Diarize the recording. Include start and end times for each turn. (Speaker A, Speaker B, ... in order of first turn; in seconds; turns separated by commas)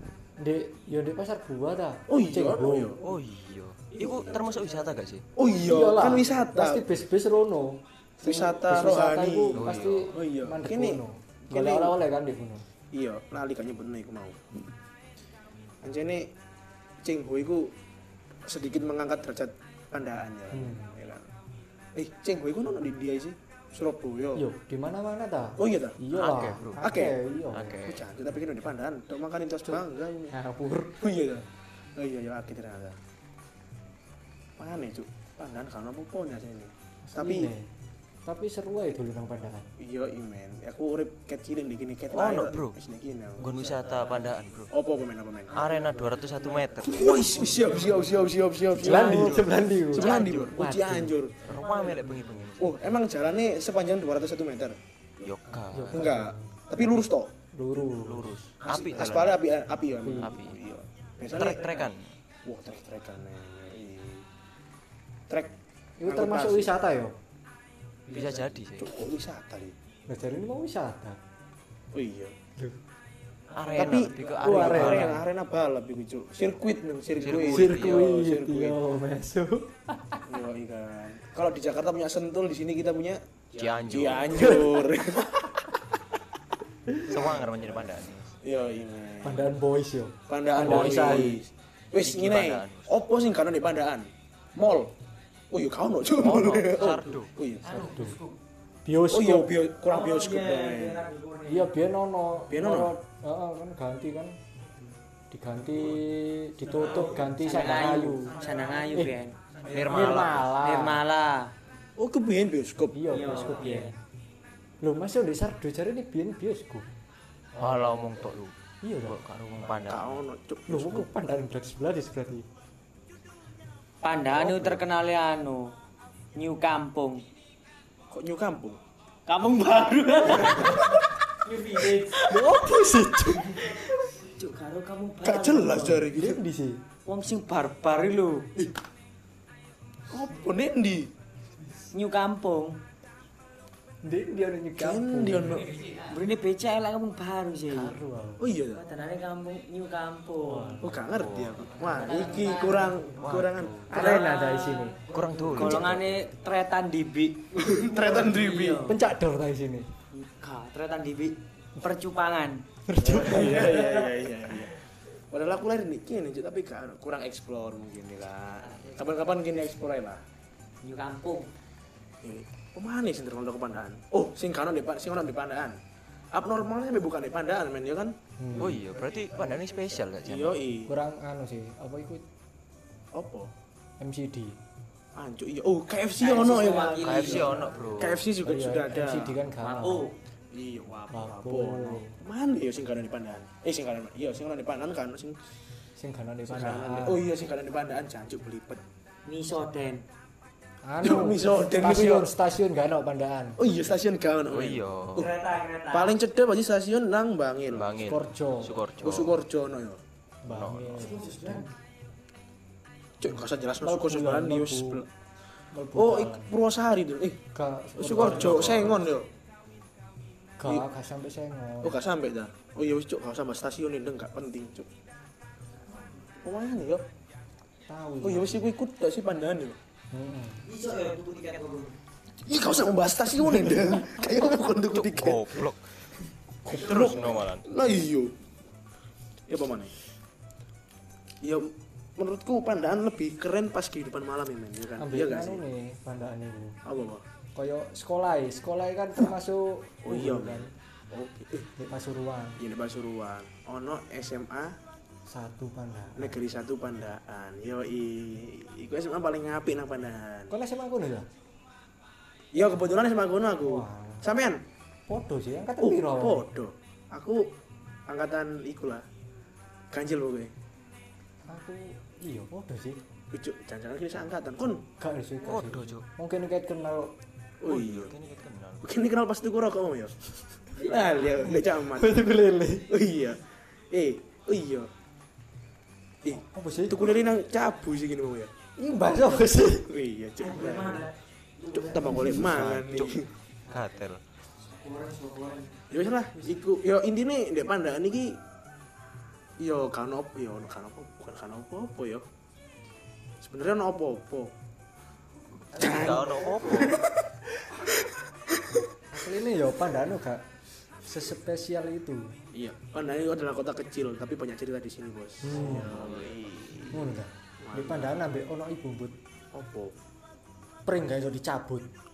Speaker A: 0.4-3.0, Speaker B: 2.1-3.0, Speaker C: 3.0-5.2, Speaker B: 4.0-4.5, Speaker B: 5.4-6.9, Speaker A: 5.7-12.7, Speaker B: 8.2-12.0, Speaker C: 9.5-10.1, Speaker B: 12.9-14.4, Speaker B: 15.8-16.3, Speaker B: 17.0-17.7, Speaker B: 18.4-21.3, Speaker A: 20.5-21.0, Speaker B: 21.9-24.4, Speaker A: 24.4-27.8, Speaker B: 25.6-26.0, Speaker C: 26.1-26.9, Speaker B: 26.8-27.2, Speaker C: 27.5-28.0, Speaker B: 27.8-30.4, Speaker A: 30.3-31.0, Speaker B: 30.9-33.0, Speaker B: 34.6-37.5, Speaker A: 37.1-37.7, Speaker A: 38.2-39.7, Speaker B: 39.8-43.6, Speaker C: 42.1-42.8, Speaker C: 43.4-44.7, Speaker B: 44.7-45.6, Speaker C: 45.5-47.1, Speaker B: 46.8-51.4, Speaker A: 48.8-51.2, Speaker C: 48.8-50.5, Speaker C: 51.4-52.8, Speaker B: 52.6-54.8, Speaker C: 55.2-56.1, Speaker A: 55.7-56.6, Speaker B: 55.9-57.3, Speaker A: 57.5-58.3, Speaker C: 58.0-59.4, Speaker B: 58.7-61.6, Speaker A: 60.0-60.4, Speaker C: 60.2-60.6, Speaker C: 61.3-62.1, Speaker B: 62.4-64.3, Speaker B: 65.3-66.8, Speaker A: 66.0-67.2, Speaker C: 68.1-68.9, Speaker B: 68.8-69.8, Speaker A: 70.1-71.2, Speaker B: 71.9-72.3, Speaker C: 73.5-75.2, Speaker B: 73.7-78.8, Speaker A: 74.4-75.2, Speaker C: 77.2-78.1, Speaker A: 77.4-80.2, Speaker B: 80.2-83.2, Speaker C: 83.5-84.6, Speaker B: 83.8-85.7, Speaker A: 84.3-84.9, Speaker C: 87.1-88.3, Speaker B: 87.1-87.8, Speaker B: 88.4-89.6, Speaker A: 89.2-91.5, Speaker B: 90.3-94.9, Speaker C: 92.0-92.9, Speaker B: 95.5-97.7, Speaker C: 96.2-97.3, Speaker D: 97.7-98.4, Speaker A: 97.7-98.2, Speaker A: 98.8-99.5, Speaker B: 99.1-101.1, Speaker D: 99.9-101.7, Speaker A: 101.5-104.4, Speaker B: 102.5-103.0, Speaker A: 105.3-108.4, Speaker D: 106.7-109.4, Speaker C: 109.6-110.5, Speaker A: 109.8-111.0, Speaker D: 110.4-111.5, Speaker B: 112.0-113.2, Speaker A: 112.9-114.0, Speaker D: 113.1-113.9, Speaker A: 114.8-116.9, Speaker C: 117.5-118.5, Speaker A: 118.8-119.2, Speaker C: 119.1-120.2, Speaker B: 119.9-121.1, Speaker A: 120.7-122.5, Speaker D: 124.0-125.8, Speaker C: 124.4-124.8, Speaker D: 126.3-127.2, Speaker B: 128.1-128.8, Speaker D: 129.3-132.4, Speaker A: 132.1-133.7, Speaker D: 133.5-136.1, Speaker B: 135.2-136.4, Speaker A: 136.1-136.8, Speaker D: 137.1-138.5, Speaker B: 140.1-141.1, Speaker D: 141.9-142.8, Speaker A: 144.0-145.7, Speaker B: 144.8-145.7, Speaker D: 145.9-147.9, Speaker A: 147.7-148.4, Speaker B: 148.4-148.8, Speaker D: 148.7-150.8, Speaker A: 150.4-150.9, Speaker B: 150.8-154.2, Speaker C: 151.1-151.6, Speaker D: 151.8-153.0, Speaker C: 153.2-154.0, Speaker A: 153.9-155.0, Speaker D: 153.9-159.0, Speaker C: 155.1-156.2, Speaker B: 157.6-158.8, Speaker A: 158.8-159.9, Speaker D: 160.1-162.7, Speaker A: 162.9-163.8, Speaker B: 163.0-170.2, Speaker D: 163.2-163.8, Speaker D: 170.8-171.5, Speaker B: 172.2-175.8, Speaker B: 176.3-178.2, Speaker A: 178.4-178.8, Speaker C: 178.6-180.6, Speaker B: 180.2-180.9, Speaker A: 180.8-182.2, Speaker B: 183.1-183.5, Speaker A: 184.0-184.6, Speaker B: 185.2-189.4, Speaker D: 186.2-187.8, Speaker C: 187.0-188.3, Speaker A: 188.4-190.1, Speaker D: 189.6-190.2, Speaker B: 190.5-195.4, Speaker A: 191.1-192.2, Speaker A: 196.0-197.2, Speaker B: 196.5-198.8, Speaker D: 199.3-200.1, Speaker A: 200.8-203.6, Speaker B: 201.0-202.3, Speaker B: 203.6-205.3, Speaker C: 204.5-205.3, Speaker D: 205.2-206.2, Speaker B: 205.9-208.0, Speaker C: 207.7-209.4, Speaker A: 208.0-208.8, Speaker B: 209.0-210.0, Speaker A: 210.4-211.7, Speaker C: 210.5-211.2, Speaker D: 211.0-211.7, Speaker B: 213.2-215.1, Speaker A: 213.3-215.1, Speaker A: 215.7-216.5, Speaker B: 215.9-217.4, Speaker A: 217.5-219.0, Speaker B: 218.0-219.3, Speaker C: 218.3-219.0, Speaker A: 220.6-222.0, Speaker B: 221.8-224.9, Speaker B: 226.4-227.1, Speaker A: 227.9-228.7, Speaker B: 228.2-229.8, Speaker A: 230.1-230.7, Speaker D: 230.7-231.9, Speaker C: 230.9-231.6, Speaker B: 232.4-235.6, Speaker A: 233.6-234.0, Speaker C: 234.9-235.8, Speaker C: 236.7-237.7, Speaker B: 236.7-238.4, Speaker B: 239.5-239.9, Speaker B: 241.4-245.6, Speaker A: 245.0-246.8, Speaker B: 246.8-247.2, Speaker A: 247.6-250.7, Speaker B: 250.0-251.7, Speaker A: 251.8-252.6, Speaker B: 252.6-254.8, Speaker A: 255.3-256.4, Speaker B: 256.2-260.5, Speaker A: 260.5-261.3, Speaker B: 262.5-264.6, Speaker A: 263.6-264.3, Speaker A: 265.1-266.5, Speaker B: 265.8-267.6, Speaker B: 268.1-269.1, Speaker B: 269.9-270.5, Speaker A: 271.5-273.0, Speaker B: 273.3-274.9, Speaker A: 275.0-277.1, Speaker C: 275.4-276.1, Speaker B: 277.6-278.2, Speaker C: 277.7-278.9, Speaker B: 278.8-280.1, Speaker B: 280.7-282.3, Speaker A: 281.5-282.9, Speaker B: 282.9-284.9, Speaker B: 286.2-288.5, Speaker A: 286.2-287.1, Speaker A: 288.8-289.9, Speaker B: 289.6-291.1, Speaker D: 290.4-292.4, Speaker B: 291.7-293.3, Speaker C: 292.3-293.1, Speaker C: 293.7-294.2, Speaker D: 294.7-295.8, Speaker B: 295.9-298.4, Speaker B: 299.6-302.2, Speaker B: 303.4-304.5, Speaker C: 305.7-307.0, Speaker B: 305.8-307.1, Speaker A: 309.1-312.4, Speaker B: 312.5-318.2, Speaker A: 315.4-315.9, Speaker C: 315.6-316.3, Speaker A: 316.9-319.2, Speaker B: 319.5-319.9, Speaker A: 320.9-321.9